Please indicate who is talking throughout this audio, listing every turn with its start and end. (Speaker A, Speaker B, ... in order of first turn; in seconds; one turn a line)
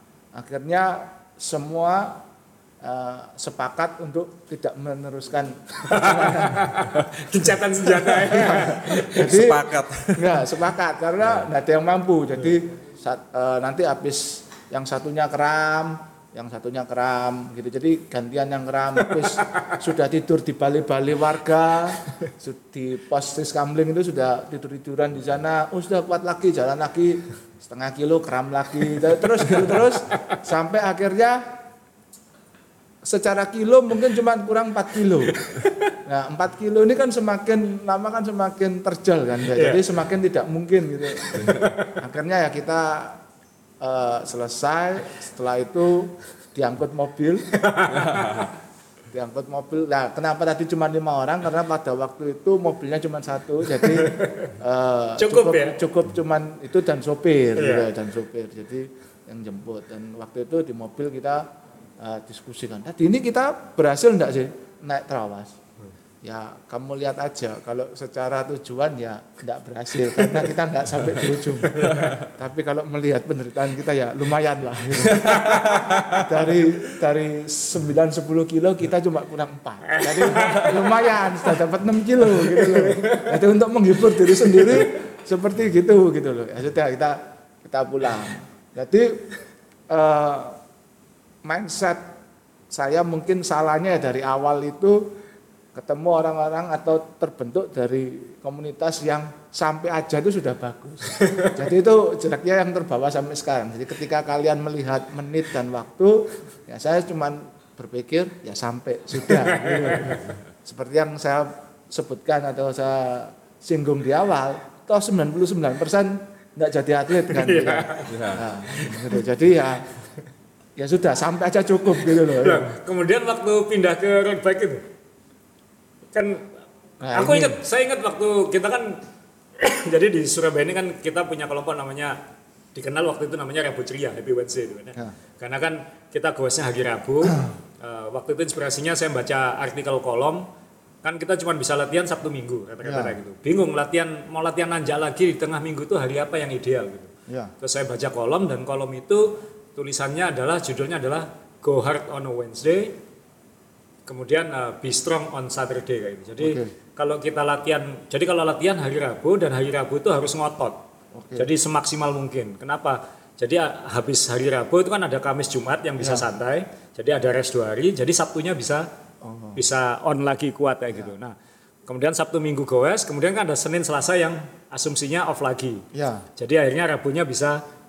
Speaker A: 0.3-2.2
Speaker A: 2.8-6.8
Speaker B: 5.8-9.3
Speaker A: 8.2-9.6
Speaker C: 8.8-10.3
Speaker A: 10.2-31.4
Speaker A: 33.0-43.2
Speaker B: 39.5-39.8
Speaker B: 41.2-42.0
Speaker A: 43.8-47.5
Speaker B: 47.5-48.5
Speaker C: 47.9-48.5
Speaker A: 49.1-61.5
Speaker B: 53.8-54.5
Speaker B: 55.2-55.8
Speaker B: 57.6-57.9
Speaker A: 62.0-65.6
Speaker A: 66.2-89.3
Speaker B: 71.7-72.1
Speaker C: 75.0-76.2
Speaker B: 79.9-80.9
Speaker B: 82.5-83.3
Speaker B: 84.6-84.8
Speaker A: 89.9-90.6
Speaker A: 91.5-92.0
Speaker A: 92.7-95.2
Speaker A: 95.8-119.9
Speaker B: 101.2-101.5
Speaker B: 109.3-110.2
Speaker B: 117.3-118.1
Speaker C: 118.1-118.5
Speaker B: 118.7-119.2
Speaker A: 120.8-122.7
Speaker B: 122.1-124.8
Speaker B: 126.1-126.5
Speaker A: 127.0-127.6
Speaker B: 127.1-129.0
Speaker B: 129.6-132.2
Speaker B: 132.7-140.5
Speaker A: 137.3-137.5
Speaker B: 141.0-147.1
Speaker A: 142.8-143.2
Speaker B: 147.6-153.0
Speaker B: 154.1-160.8
Speaker A: 156.4-156.7
Speaker A: 161.2-161.5
Speaker B: 161.4-168.9
Speaker A: 166.0-166.3
Speaker A: 169.2-169.6
Speaker B: 169.6-171.4
Speaker B: 171.9-175.8
Speaker A: 175.9-176.3
Speaker B: 176.4-177.6